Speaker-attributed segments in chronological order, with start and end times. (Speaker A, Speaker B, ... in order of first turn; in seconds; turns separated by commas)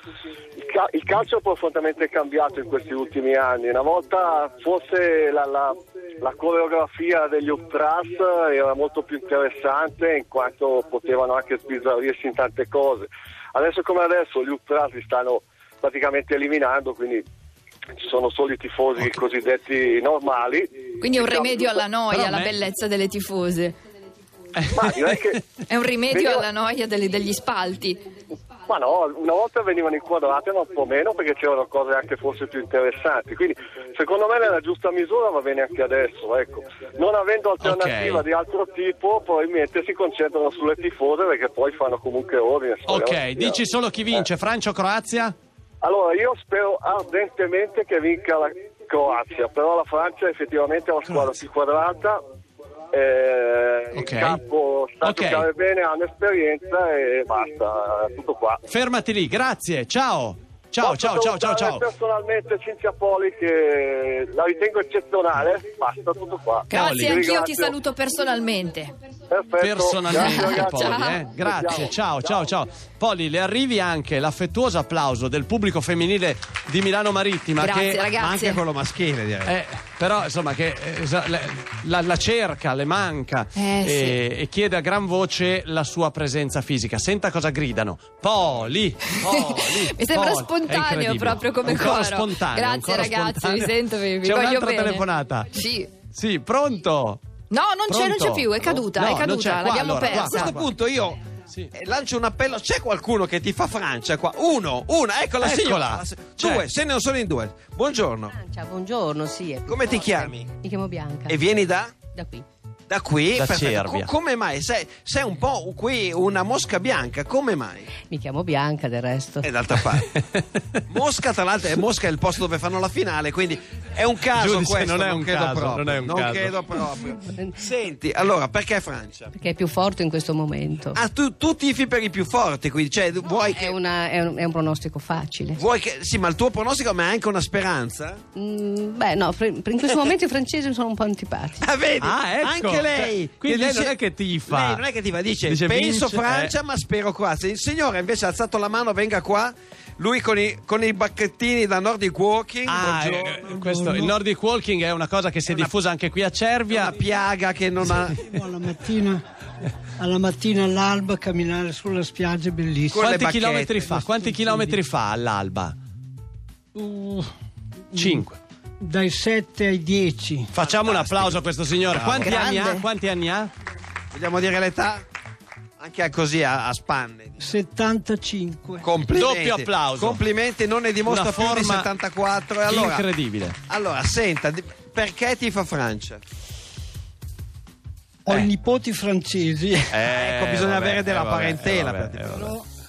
Speaker A: 0.6-17.2, Speaker A: 18.0-21.8, Speaker B: 21.0-23.8, Speaker C: 22.1-22.5, Speaker A: 24.7-25.4, Speaker B: 25.7-28.0, Speaker A: 26.1-26.4, Speaker A: 28.7-43.5, Speaker C: 37.6-38.2, Speaker C: 42.9-45.3, Speaker A: 45.8-52.2, Speaker C: 51.1-51.4, Speaker A: 52.9-58.6, Speaker C: 53.9-54.4, Speaker C: 55.0-55.5, Speaker C: 58.7-61.8, Speaker A: 60.8-67.8, Speaker B: 66.7-68.9, Speaker C: 66.7-67.2, Speaker A: 69.3-72.3, Speaker C: 69.6-78.0, Speaker B: 70.1-71.2, Speaker B: 77.6-78.6, Speaker D: 78.0-79.6, Speaker C: 79.4-95.5, Speaker B: 83.6-84.2, Speaker B: 89.2-95.9, Speaker C: 96.1-97.2, Speaker B: 97.5-100.6, Speaker C: 97.9-100.7, Speaker D: 100.1-101.2, Speaker D: 101.7-108.3, Speaker C: 105.4-106.7, Speaker E: 108.3-112.5, Speaker D: 109.7-110.5, Speaker D: 111.3-112.0, Speaker D: 112.9-117.9, Speaker C: 113.3-114.1, Speaker E: 118.0-119.5, Speaker D: 119.4-120.1, Speaker D: 120.9-129.3, Speaker C: 124.3-126.7, Speaker E: 127.2-127.7, Speaker E: 129.3-131.0, Speaker D: 130.9-133.8, Speaker E: 133.5-135.6, Speaker D: 135.6-138.2, Speaker E: 138.3-141.7, Speaker D: 141.6-143.9, Speaker C: 142.0-144.9, Speaker D: 144.4-153.5, Speaker C: 145.4-146.5, Speaker C: 152.7-156.9, Speaker F: 153.5-154.2, Speaker D: 155.5-155.7, Speaker D: 156.7-158.2, Speaker C: 157.9-158.4, Speaker F: 158.2-159.2, Speaker F: 160.0-163.0, Speaker D: 162.9-164.0, Speaker C: 163.0-165.8, Speaker F: 164.0-164.7, Speaker F: 166.8-167.3, Speaker F: 167.9-168.2, Speaker C: 168.0-168.4, Speaker F: 168.8-170.5, Speaker C: 170.5-173.5, Speaker D: 170.6-172.8, Speaker B: 172.2-172.8, Speaker D: 174.1-175.0, Speaker D: 175.8-177.5, Speaker F: 177.4-178.9, Speaker D: 178.8-183.1, Speaker C: 179.1-180.2, Speaker C: 181.0-181.9, Speaker C: 182.7-183.6, Speaker D: 183.7-186.2, Speaker F: 188.3-190.0, Speaker C: 189.9-192.6, Speaker D: 189.9-192.5, Speaker F: 192.3-192.7